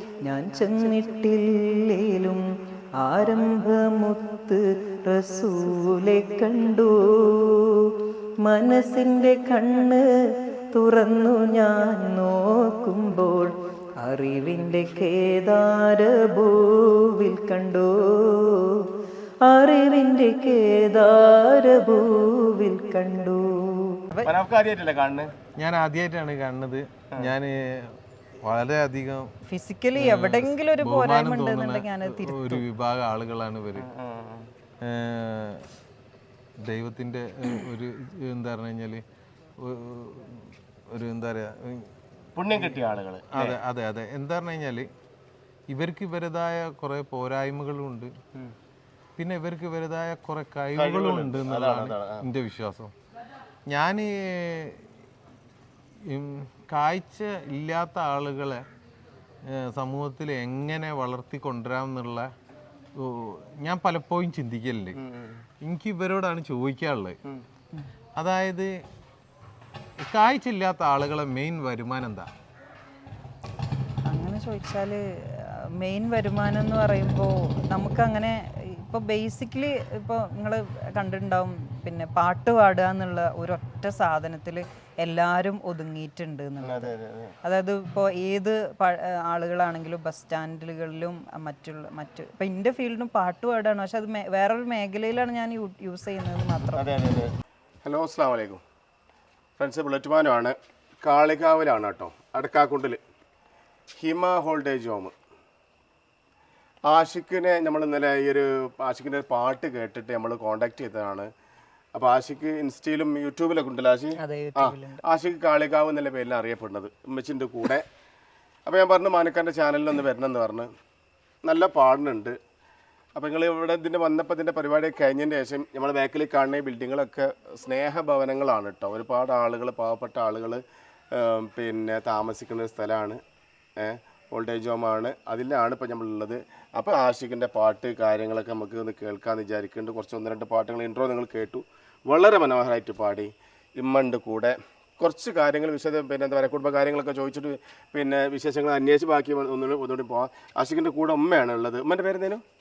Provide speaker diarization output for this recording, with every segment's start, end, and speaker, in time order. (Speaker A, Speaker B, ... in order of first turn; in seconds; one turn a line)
Speaker A: 0.2-2.4
Speaker A: 3.0-7.9
Speaker A: 8.4-10.1
Speaker A: 10.7-18.8
Speaker A: 19.5-24.3
Speaker B: 24.2-25.3
Speaker C: 25.6-29.3
Speaker A: 29.5-32.6
Speaker C: 29.9-33.9
Speaker B: 33.8-34.5
Speaker C: 34.8-35.7
Speaker C: 36.7-39.0
Speaker C: 39.6-41.9
Speaker B: 42.4-43.6
Speaker C: 43.3-44.9
Speaker C: 45.7-48.1
Speaker C: 49.2-52.9
Speaker B: 50.8-52.2
Speaker C: 53.7-54.8
Speaker C: 56.0-58.6
Speaker C: 59.5-62.3
Speaker C: 63.0-65.0
Speaker B: 65.0-65.5
Speaker C: 65.6-67.2
Speaker C: 68.2-68.7
Speaker C: 70.0-72.3
Speaker A: 74.1-96.8
Speaker B: 86.6-87.4
Speaker B: 96.8-97.3
Speaker B: 97.8-98.6
Speaker B: 99.6-103.0
Speaker B: 104.0-105.1
Speaker B: 106.9-111.3
Speaker B: 112.0-117.9
Speaker A: 114.2-115.0
Speaker B: 118.7-120.7
Speaker B: 121.4-122.4
Speaker B: 123.2-133.2
Speaker B: 133.8-152.4